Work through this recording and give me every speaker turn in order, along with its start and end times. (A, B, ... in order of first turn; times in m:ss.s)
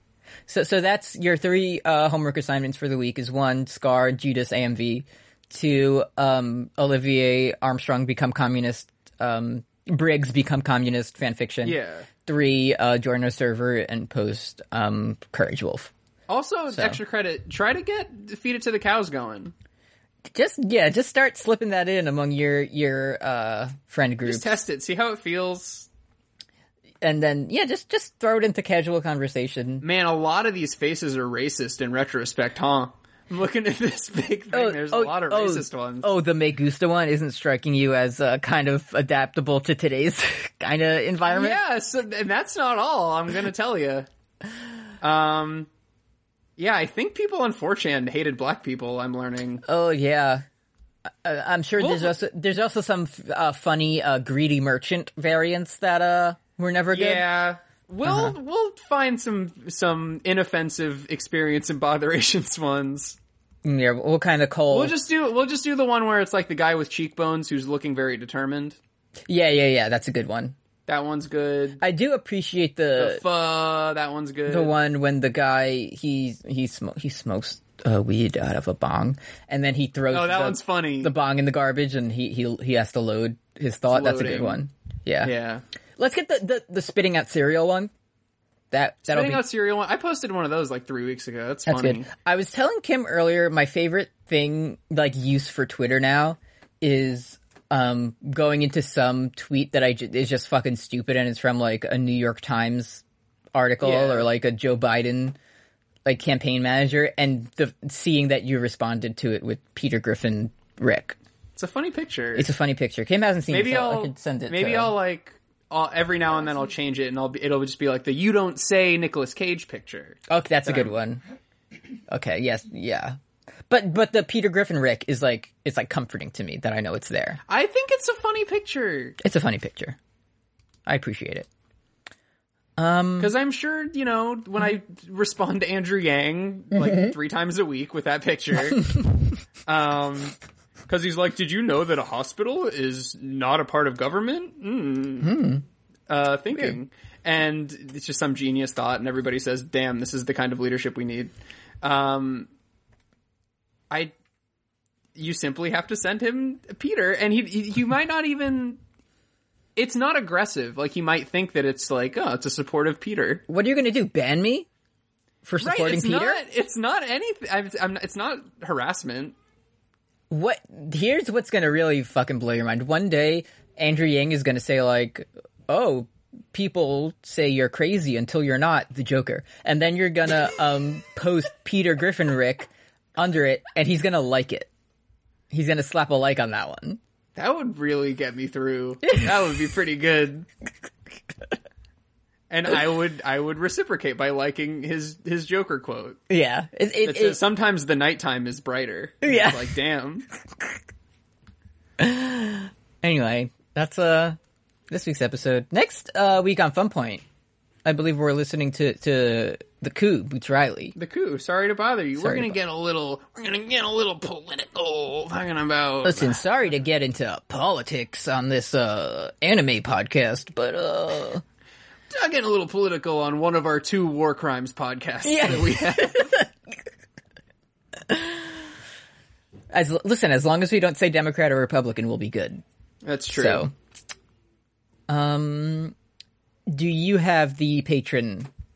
0:00.5-0:15.9 A
0:11.6-0:12.1 B
0:16.3-0:19.5 B
0:16.7-0:17.0 A
0:20.3-0:24.5 A
0:24.2-0:25.9 B
0:27.0-0:29.8 A
0:29.8-0:36.1 B
0:34.5-0:41.6 A
0:41.2-0:44.1 B
0:45.0-0:45.7 B
0:46.6-0:49.6 B
0:49.6-0:50.4 A
0:51.2-0:57.2 A
0:51.8-0:52.1 B
0:56.9-1:03.2 B
0:58.0-0:58.3 A
1:03.6-1:04.9 A
1:04.7-1:08.8 B
1:09.3-1:10.6 A
1:10.9-1:11.8 B
1:11.8-1:13.2 A
1:13.0-1:14.7 B
1:14.5-1:25.3 A
1:20.1-1:21.1 B
1:23.9-1:24.6 B
1:25.2-1:25.6 B
1:26.0-1:27.9 A
1:28.7-1:29.4 A
1:29.0-1:32.1 B
1:31.7-1:45.4 A
1:43.8-1:44.3 B
1:46.0-1:51.2 A
1:51.6-1:52.5 B
1:52.3-1:54.9 A
1:53.5-2:00.9 B
2:00.3-2:01.2 A
2:02.1-2:03.2 A
2:03.7-2:07.4 A
2:07.5-2:09.2 B
2:09.2-2:10.0 A
2:10.8-2:11.5 A
2:12.8-2:13.3 A
2:13.2-2:18.9 B
2:18.7-2:19.2 A
2:19.7-2:20.3 B
2:20.9-2:25.3 B
2:25.2-2:25.6 A
2:26.1-2:32.5 B
2:35.1-2:38.8 B
2:39.8-2:43.4 B
2:43.5-2:44.7 A
2:45.4-2:46.4 A
2:45.6-2:49.3 B
2:50.3-3:04.7 A
3:05.5-3:07.0 A
3:07.4-3:10.5 B
3:09.0-3:09.3 A
3:12.5-3:16.2 B
3:16.3-3:17.4 A
3:17.0-3:20.3 B
3:19.2-3:19.7 A
3:22.0-3:24.4 A
3:24.9-3:27.2 A
3:27.8-3:30.9 A
3:30.9-3:36.4 B
3:32.2-3:32.6 A
3:36.0-3:41.4 A
3:42.1-3:46.3 B
3:45.2-3:46.5 A
3:48.1-3:48.6 A
3:49.7-3:52.6 A
3:53.0-3:53.6 B
3:53.3-3:53.7 A
3:55.1-3:55.9 A
3:56.7-3:58.5 A